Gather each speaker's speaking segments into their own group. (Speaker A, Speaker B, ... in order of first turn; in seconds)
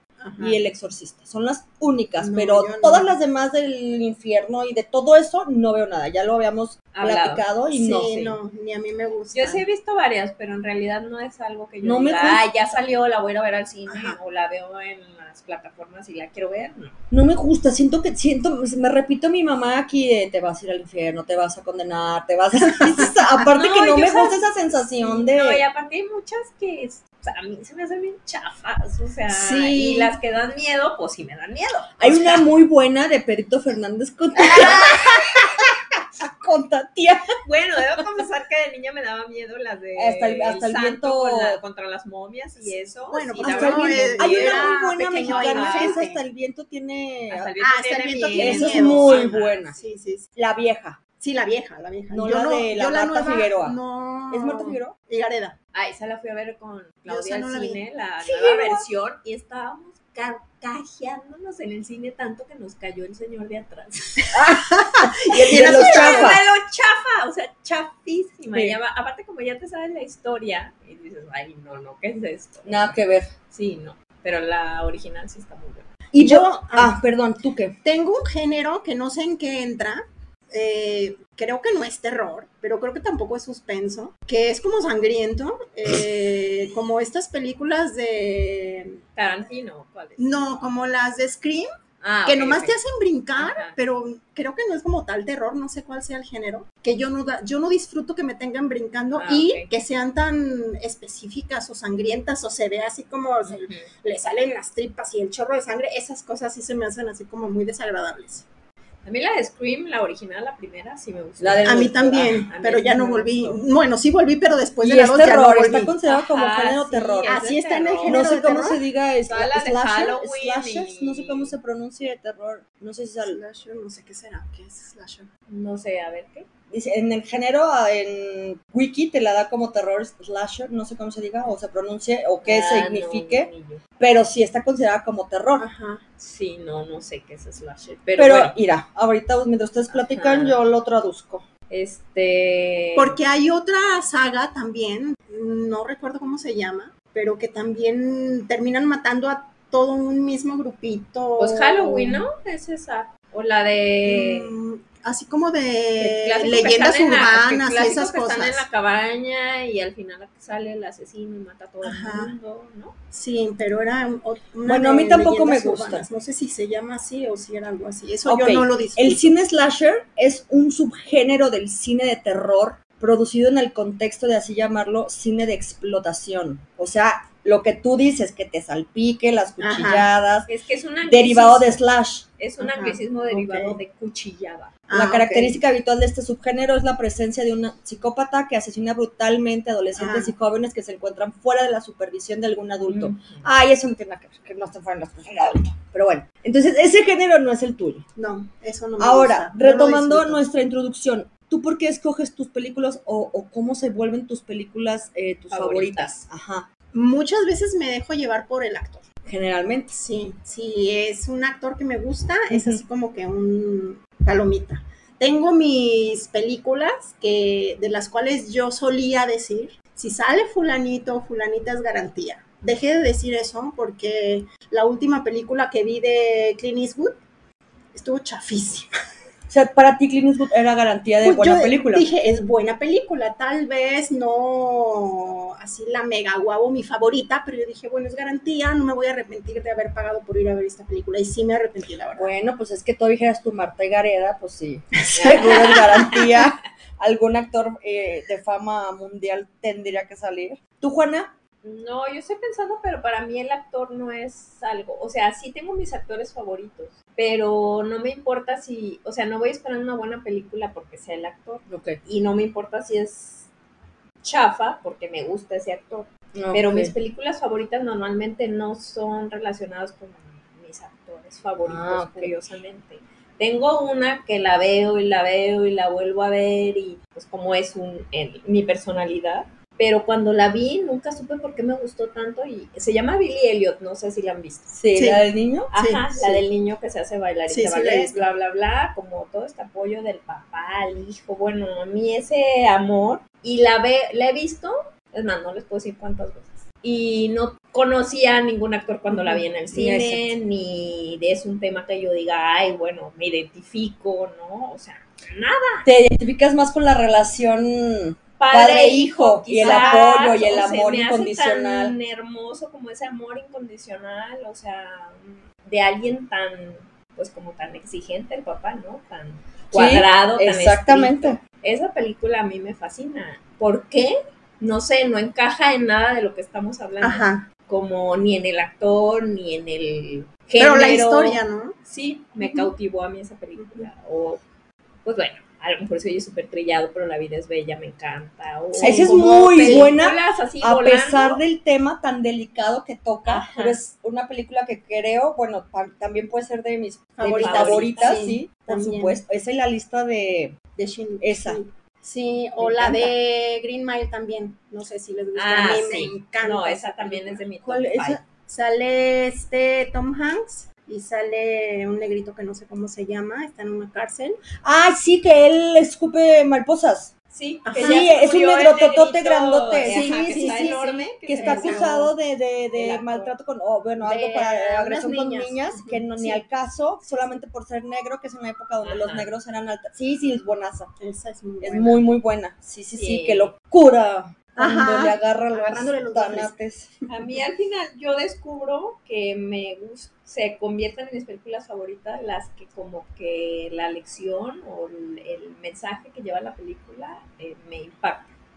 Speaker A: 0.2-0.6, 2.2-3.1, 7.7-9.7, 13.9-14.2, 22.7-23.1, 29.3-30.1, 43.1-46.2, 47.6-50.2, 51.2-55.6, 57.1-57.8, 64.3-66.4, 76.2-77.0, 77.8-89.0, 90.2-91.7, 92.3-108.5, 111.6-115.9, 117.2-118.8, 123.2-125.3, 135.6-136.0, 142.9-152.2, 154.1-158.7, 161.8-162.3, 163.1-169.4, 179.6-180.1, 182.6-183.8, 184.9-185.6, 189.9-190.3, 198.2-200.5, 206.9-209.1, 209.9-227.2, 227.9-228.9, 231.2-242.3, 245.1-246.2, 284.9-285.2, 285.8-286.4, 287.5-288.2, 299.1-299.4, 309.6-310.3, 327.0-327.5, 330.6-331.8, 332.4-332.7, 333.6-333.9, 338.8-339.9, 347.2-349.2, 350.8-357.4, 358.5-364.4, 367.6-368.1, 369.9-372.1, 374.0-376.4, 381.0-382.1, 384.6-386.5
Speaker B: 0.4-8.4, 11.8-12.4, 17.1-25.6, 32.0-37.3, 40.0-41.6, 43.4-47.5, 48.4-49.8, 50.4-51.0, 52.1-53.8, 54.3-55.0, 64.3-64.7, 65.2-66.4, 72.7-73.3, 76.1-77.8, 111.4-112.3, 114.8-117.4, 118.1-123.4, 126.7-135.7, 138.2-141.5, 164.7-166.1, 168.2-180.5, 181.0-182.2, 184.9-198.1, 199.0-206.7, 209.2-209.9, 212.5-212.8, 229.5-232.1, 242.2-251.4, 261.7-262.0, 266.4-266.9, 271.6-272.4, 284.7-285.7, 299.7-300.3, 305.9-311.9, 319.7-321.4, 338.8-350.6, 351.2-351.6, 352.6-353.1, 357.6-358.2, 364.6-367.1, 367.8-380.9, 381.6-386.9
Speaker C: 6.9-7.4, 9.3-17.0, 23.5-32.5, 37.4-46.0, 47.3-49.6, 55.7-64.3, 65.5-73.0, 73.5-75.9, 89.2-90.7, 92.0-92.8, 93.4-93.8, 99.2-99.7, 103.5-103.9, 109.0-113.7, 116.0-118.2, 119.3-121.5, 125.5-126.5, 132.4-133.8, 136.2-138.6, 139.9-140.6, 141.7-143.2, 151.4-154.5, 156.0-163.0, 180.5-181.8, 182.4-184.8, 192.9-193.5, 205.5-206.2, 245.2-245.8, 251.6-263.5, 264.2-284.7, 285.7-305.9, 308.4-334.4, 335.0-341.4, 343.3-343.8, 347.4-348.2, 355.4-358.2, 367.3-372.0, 372.8-373.3, 378.8-379.3, 382.9-383.5, 387.1-398.3